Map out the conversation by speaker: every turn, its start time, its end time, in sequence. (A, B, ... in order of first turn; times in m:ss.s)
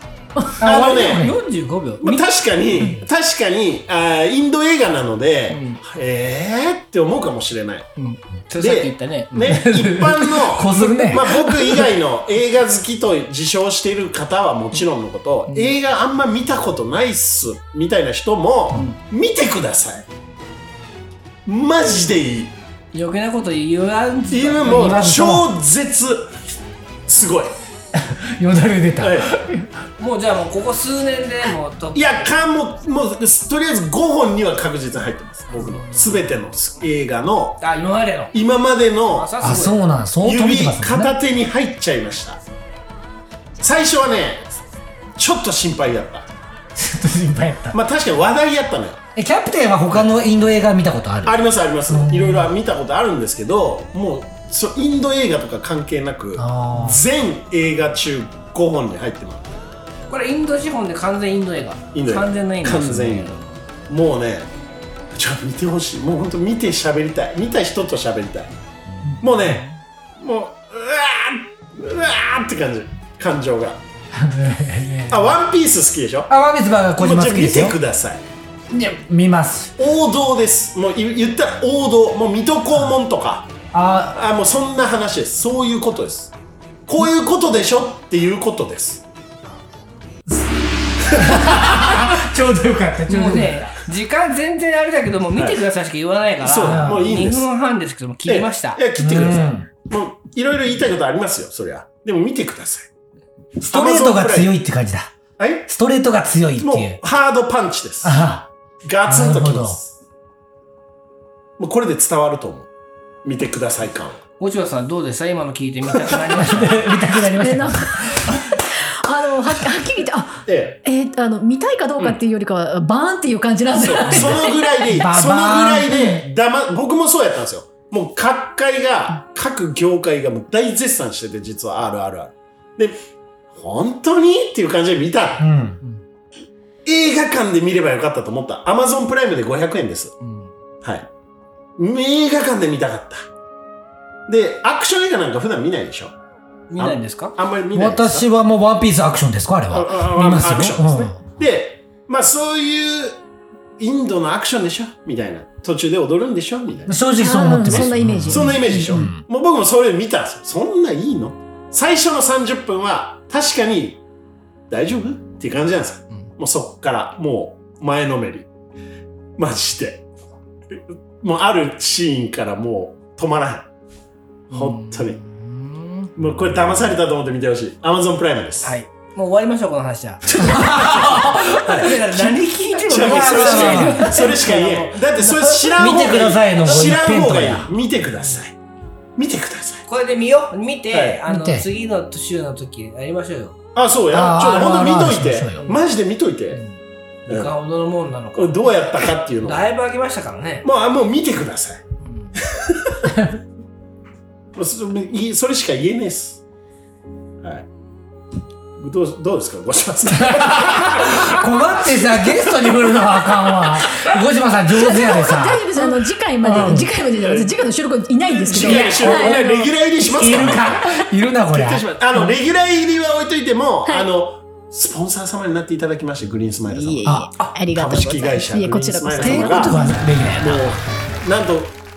0:00.6-0:01.3 A
0:00.6-0:01.4 B
0:00.7-0:03.0 C
0:02.0-0:07.9 A
0:05.5-0:05.8 C
0:08.0-0:09.6 C
0:08.6-0:20.0 A
0:09.4-0:11.9 B
0:15.5-0:15.7 C
0:21.4-0:22.6 A
0:22.9-0:25.0 C
0:24.3-0:26.3 A
0:24.6-0:25.5 B
0:27.1-0:27.6 A
0:27.9-0:29.7 B
0:29.0-0:29.4 A
0:30.0-0:32.3 C
0:31.9-0:37.6 A
0:35.6-0:35.9 C
0:37.6-0:38.3 C
0:38.3-0:39.3 A
0:39.1-0:39.8 C
0:39.4-0:41.1 B
0:40.2-0:42.4 A
0:43.6-0:44.6 A
0:45.2-0:46.3 A
0:46.8-0:47.8 B
0:47.7-0:49.0 A
0:49.1-0:52.5 B
0:51.3-0:59.6 A
0:56.4-0:57.0 B
1:00.1-1:03.4 C
1:01.9-1:04.5 A
1:05.1-1:08.6 A
1:09.2-1:09.6 A
1:10.2-1:13.8 A
1:14.1-1:15.3 B
1:15.1-1:16.3 A
1:16.3-1:17.8 B
1:17.0-1:18.2 A
1:18.7-1:19.7 B
1:19.8-1:23.5 A
1:23.7-1:24.2 B
1:24.1-1:26.3 A
1:26.9-1:29.0 A
1:31.0-1:33.6 B
1:33.1-1:38.8 C
1:36.4-1:37.5 A
1:36.6-1:37.1 B
1:38.3-1:42.9 A
1:39.0-1:39.7 B
1:43.6-1:44.6 A
1:43.6-1:45.1 B
1:45.4-1:45.7 A
1:45.7-1:47.0 B
1:46.6-1:48.2 A
1:48.0-1:48.5 B
1:48.8-1:49.9 A
1:49.0-1:49.8 B
1:51.6-1:52.7 A
1:53.2-1:54.2 A
1:54.4-1:57.0 C
1:56.2-1:58.4 B
1:57.2-2:04.8 D
2:00.4-2:00.8 A
2:03.8-2:13.0 A
2:04.0-2:06.3 B
2:05.9-2:06.2 D
2:13.5-2:15.4 A
2:15.4-2:15.8 B
2:16.8-2:20.1 A
2:20.2-2:20.5 C
2:20.8-2:21.1 A
2:21.8-2:23.2 A
2:24.3-2:26.1 A
2:26.7-2:27.4 C
2:26.8-2:28.3 A
2:27.7-2:31.2 B
2:29.7-2:33.2 A
2:33.8-2:37.0 A
2:36.9-2:39.2 B
2:37.2-2:39.1 D
2:38.2-2:44.0 A
2:44.7-2:48.5 A
2:49.4-2:50.0 A
2:50.7-2:53.7 A
2:54.5-2:56.1 C
2:54.5-2:55.2 A
2:56.2-2:58.8 A
2:58.6-3:06.1 C
3:00.3-3:02.0 A
3:00.3-3:02.3 B
3:02.9-3:08.6 A
3:02.9-3:04.1 B
3:05.8-3:07.7 B
3:09.2-3:09.8 A
3:09.9-3:13.6 C
3:10.9-3:11.2 A
3:11.3-3:11.7 B
3:13.7-3:16.6 A
3:14.1-3:15.6 B
3:16.5-3:20.7 C
3:18.3-3:19.6 A
3:20.6-3:21.8 A
3:22.0-3:22.4 C
3:22.4-3:23.0 A
3:23.1-3:23.4 B
3:24.6-3:26.4 A
3:28.8-3:31.4 A
3:30.1-3:36.9 B
3:34.9-3:39.7 D
3:37.2-3:37.5 A
3:38.3-3:47.1 A
3:38.5-3:39.5 B
3:40.0-3:42.3 B
3:46.7-3:50.0 D
3:47.0-3:47.3 B
3:47.7-3:51.8 A
3:49.2-3:50.9 B